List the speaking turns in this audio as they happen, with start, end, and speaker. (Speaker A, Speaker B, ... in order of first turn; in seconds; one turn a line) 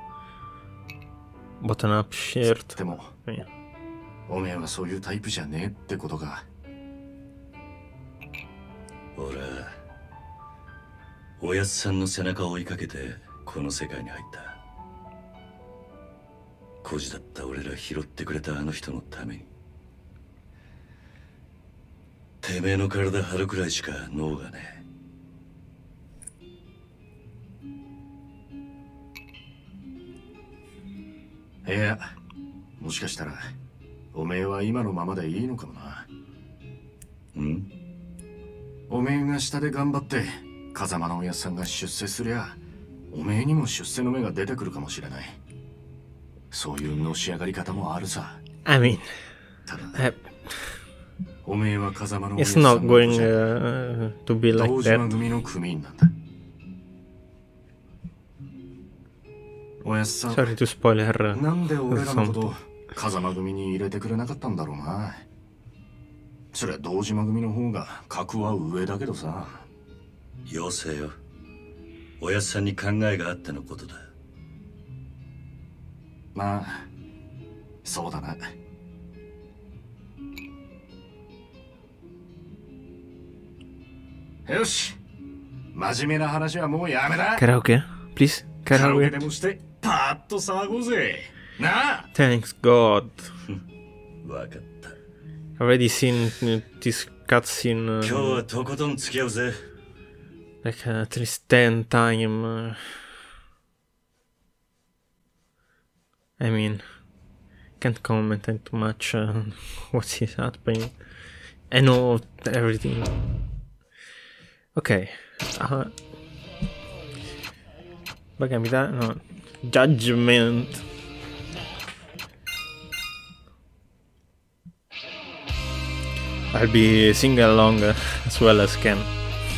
Speaker A: 1.6-3.5
Speaker B: 2.4-3.1
Speaker B: 4.3-6.5
Speaker C: 9.1-9.8
Speaker C: 11.4-14.6
Speaker C: 16.8-19.5
Speaker C: 22.4-24.8
Speaker B: 31.6-32.1
Speaker B: 32.8-33.4
Speaker B: 34.1-36.1
Speaker C: 37.3-37.7
Speaker B: 38.9-42.6
Speaker B: 43.1-45.4
Speaker B: 46.5-48.4
Speaker A: 48.6-49.1
Speaker B: 49.6-50.0
Speaker A: 50.0-50.8
Speaker B: 51.4-53.3
Speaker A: 52.4-55.0
Speaker B: 54.5-56.1
Speaker B: 59.8-60.5
Speaker A: 60.3-62.5
Speaker B: 61.3-65.2
Speaker B: 66.5-69.7
Speaker C: 70.5-71.2
Speaker C: 72.2-74.0
Speaker B: 76.3-76.9
Speaker B: 77.8-78.5
Speaker B: 84.4-85.0
Speaker B: 85.7-87.4
Speaker A: 87.4-89.2
Speaker B: 88.7-92.1
Speaker A: 92.1-93.3
Speaker C: 94.2-95.0
Speaker A: 95.6-98.4
Speaker C: 98.0-99.6
Speaker A: 100.6-102.9
Speaker A: 106.4-106.8
Speaker A: 107.8-111.0
Speaker A: 111.7-113.1
Speaker A: 114.7-116.0
Speaker A: 118.4-120.8
Speaker A: 126.5-129.1